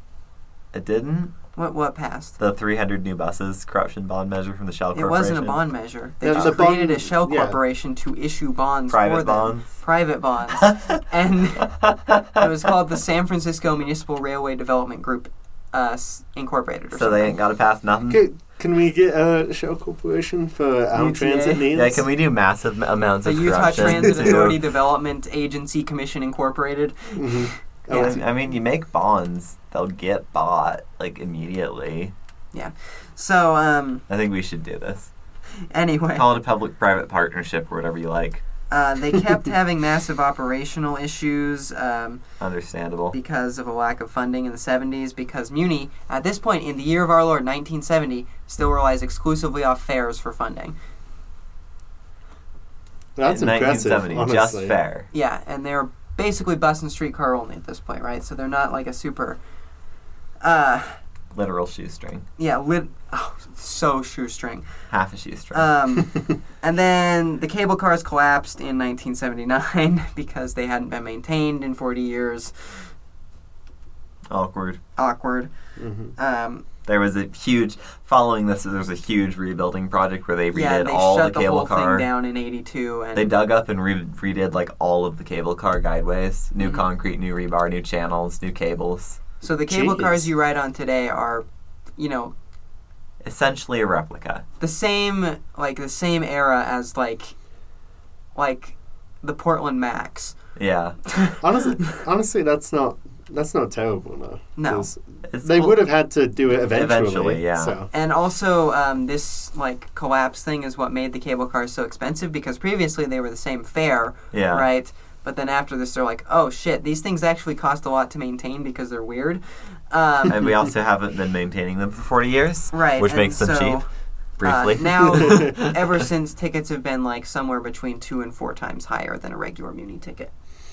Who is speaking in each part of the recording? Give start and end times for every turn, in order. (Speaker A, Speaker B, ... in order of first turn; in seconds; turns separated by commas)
Speaker A: 0.7-1.3, Speaker B: 1.6-2.4, Speaker A: 2.4-5.6, Speaker B: 4.9-11.7, Speaker C: 6.2-7.6, Speaker A: 6.3-6.6, Speaker A: 8.9-9.7, Speaker A: 10.6-11.0, Speaker A: 11.6-12.4, Speaker B: 12.3-17.4, Speaker A: 16.9-18.2, Speaker C: 18.1-22.1, Speaker B: 20.9-21.7, Speaker A: 21.7-24.6, Speaker B: 23.2-28.2, Speaker C: 23.8-24.6, Speaker C: 27.2-28.2, Speaker A: 27.9-32.1, Speaker B: 32.5-34.0, Speaker A: 34.1-35.1, Speaker B: 35.7-36.3, Speaker A: 36.1-38.4, Speaker B: 38.7-42.2, Speaker A: 42.4-43.1, Speaker B: 43.1-50.8, Speaker C: 53.2-54.8, Speaker A: 53.2-55.1, Speaker B: 55.1-59.4, Speaker B: 60.4-61.0, Speaker A: 61.3-62.3, Speaker B: 62.4-64.7, Speaker A: 64.9-65.7, Speaker B: 65.5-72.9, Speaker A: 74.3-74.8, Speaker B: 75.0-75.5, Speaker C: 75.8-76.1, Speaker B: 76.2-76.7, Speaker A: 76.8-82.1, Speaker B: 80.5-83.3, Speaker A: 83.2-89.2, Speaker B: 86.6-86.8, Speaker B: 89.4-91.5, Speaker C: 89.7-90.3, Speaker B: 92.0-92.3, Speaker A: 93.2-94.4, Speaker B: 94.6-97.4, Speaker B: 98.3-100.4, Speaker A: 100.6-101.0, Speaker C: 101.4-107.9, Speaker B: 104.6-104.9, Speaker A: 105.3-105.8, Speaker A: 106.7-107.8, Speaker B: 107.9-120.5, Speaker A: 114.3-114.7, Speaker A: 120.3-123.8, Speaker B: 122.7-123.9, Speaker A: 124.4-125.8, Speaker B: 124.4-130.3, Speaker C: 125.2-125.5